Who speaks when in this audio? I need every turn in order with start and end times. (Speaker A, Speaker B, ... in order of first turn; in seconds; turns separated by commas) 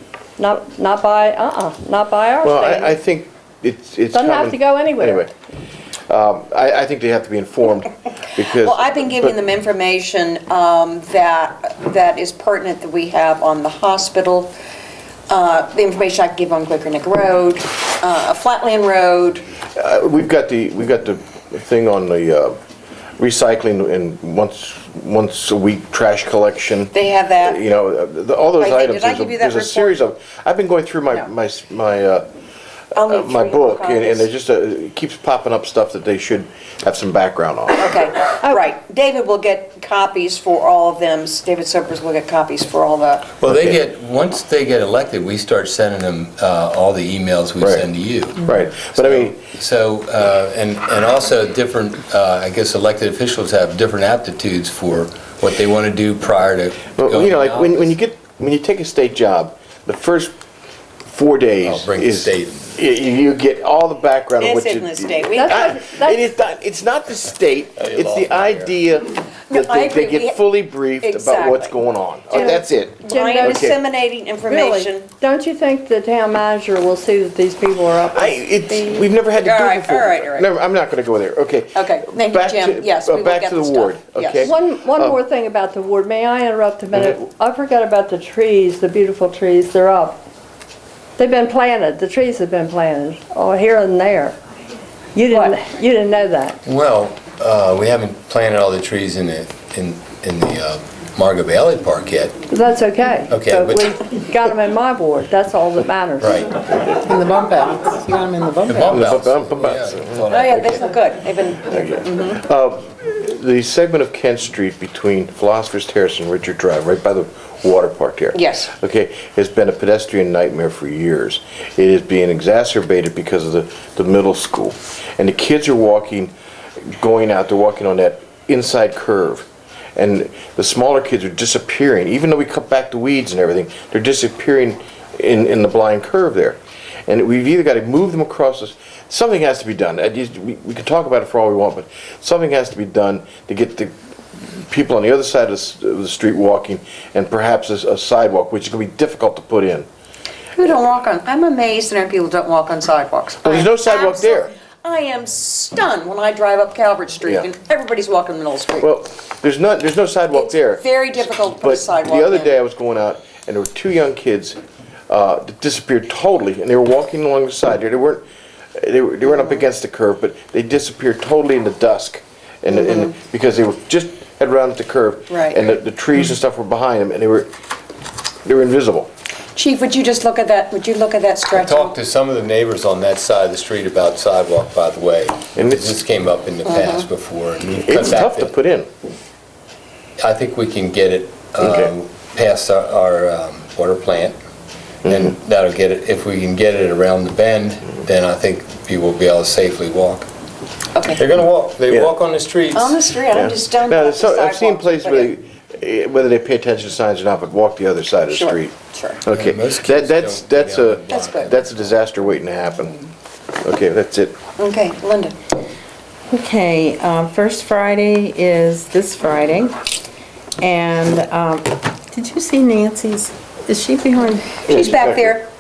Speaker A: 0.4-2.9, Speaker B: 2.4-5.3, Speaker A: 4.1-5.2, Speaker B: 6.1-9.4, Speaker C: 8.5-14.5, Speaker C: 15.3-19.5, Speaker B: 19.8-22.6, Speaker B: 23.2-32.2, Speaker C: 26.9-27.6, Speaker C: 28.6-29.9, Speaker B: 32.9-38.0, Speaker C: 33.0-34.3, Speaker C: 37.8-43.3, Speaker D: 43.4-58.0, Speaker B: 43.5-43.8, Speaker B: 47.6-47.9, Speaker B: 48.4-49.4, Speaker B: 57.0-60.4, Speaker B: 61.1-73.8, Speaker D: 61.6-62.7, Speaker C: 64.4-65.9, Speaker A: 65.4-66.2, Speaker D: 67.8-68.8, Speaker C: 69.5-70.4, Speaker C: 71.0-71.7, Speaker C: 72.3-75.1, Speaker A: 73.1-73.6, Speaker A: 74.5-78.3, Speaker B: 78.0-85.2, Speaker C: 79.4-80.5, Speaker C: 81.7-84.5, Speaker A: 84.5-90.2, Speaker A: 91.2-94.4, Speaker A: 95.2-96.6, Speaker D: 96.7-102.4, Speaker A: 102.5-106.3, Speaker D: 103.3-103.9, Speaker D: 106.2-106.5, Speaker E: 106.8-109.0, Speaker D: 108.7-110.5, Speaker B: 108.9-110.8, Speaker C: 110.3-112.4, Speaker B: 111.7-126.3, Speaker C: 118.3-118.7, Speaker B: 127.0-143.9, Speaker B: 144.6-149.9, Speaker C: 150.6-158.9, Speaker B: 153.4-154.5, Speaker B: 158.8-164.6, Speaker C: 160.3-162.6, Speaker B: 165.1-168.2, Speaker B: 168.8-177.5, Speaker C: 172.7-173.2, Speaker C: 175.3-175.6, Speaker B: 178.4-179.1, Speaker C: 179.6-181.9, Speaker D: 181.5-188.5, Speaker B: 185.6-185.9, Speaker C: 186.7-187.1, Speaker B: 187.9-188.9, Speaker D: 190.2-194.4, Speaker B: 191.6-191.9, Speaker B: 195.1-195.3, Speaker D: 195.1-200.3, Speaker C: 200.9-201.2, Speaker D: 201.1-203.1, Speaker C: 202.7-205.3, Speaker B: 203.3-213.0, Speaker C: 208.3-209.2, Speaker D: 209.3-211.7, Speaker C: 211.1-211.6, Speaker B: 213.6-214.4, Speaker C: 214.6-215.4, Speaker E: 216.3-219.8, Speaker E: 220.6-224.6, Speaker B: 224.7-225.3, Speaker C: 224.7-225.5